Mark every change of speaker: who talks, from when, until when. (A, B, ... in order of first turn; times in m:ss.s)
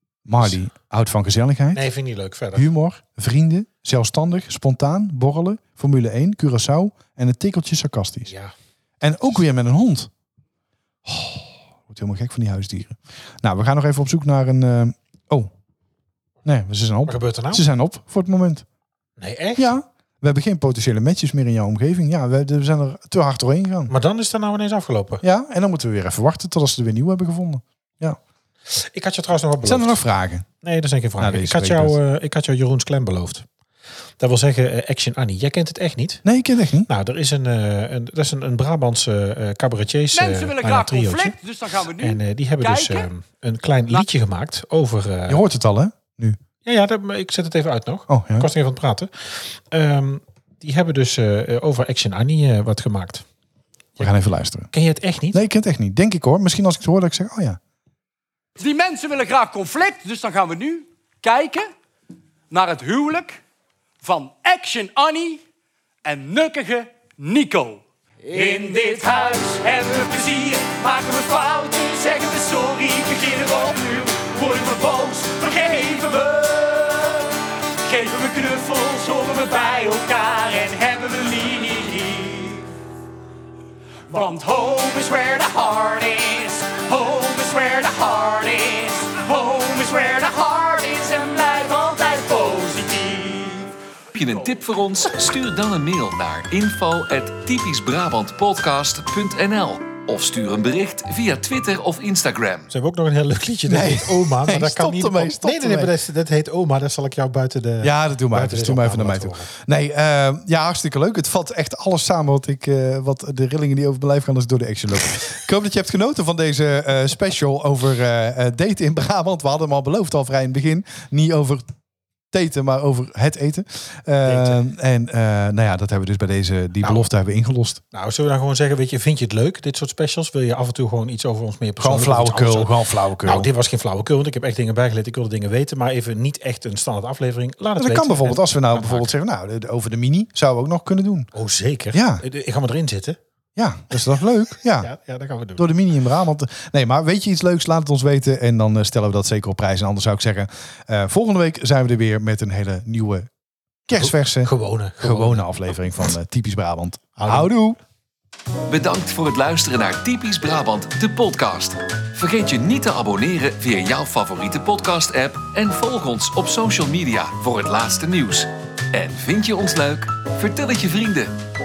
0:00.2-0:01.8 A
0:01.7-0:02.7 B
0:02.5-0:08.3 A
0:08.2-0:08.5 B
0:09.0-0:10.1 A
0:11.0-0:15.5 A
0:16.4-0:18.6 A
0:17.0-0:17.6 B
0:19.2-0:19.6 B
0:19.6-0:23.9 A
0:23.9-0:25.2 B
0:25.2-0:28.2 A
0:28.7-0:30.0 B
0:29.6-0:30.5 A
0:30.6-0:33.4 B
0:31.2-0:32.0 A
0:34.2-0:36.2 B
0:36.2-0:36.9 A
0:36.9-0:41.4 B
0:40.1-0:43.1 C
0:42.0-0:45.4 B
0:45.3-0:46.4 A
0:46.6-0:53.2 B
0:48.1-0:48.5 A
0:54.0-0:54.7 A
0:54.7-0:55.4 B
0:55.3-0:57.6 A
0:58.6-1:01.7 C
1:02.5-1:03.4 C
1:04.0-1:05.4 C
1:06.0-1:22.7 C
1:24.1-1:33.7 C
1:34.1-1:42.7 D
1:42.7-1:49.5 B
1:43.7-1:45.9 A
1:47.8-2:01.7 A
2:02.3-2:07.8 A
2:04.2-2:04.6 B
2:06.8-2:07.0 B
2:07.9-2:19.1 B
2:11.8-2:13.5 A
2:17.8-2:21.3 A
2:21.3-2:23.2 B
2:21.9-2:22.2 A
2:23.6-2:24.9 A
2:24.8-2:25.6 B
2:25.6-2:33.3 A
2:33.8-2:37.8 A
2:34.0-2:35.5 B
2:37.2-2:37.5 B
2:38.7-2:51.3 D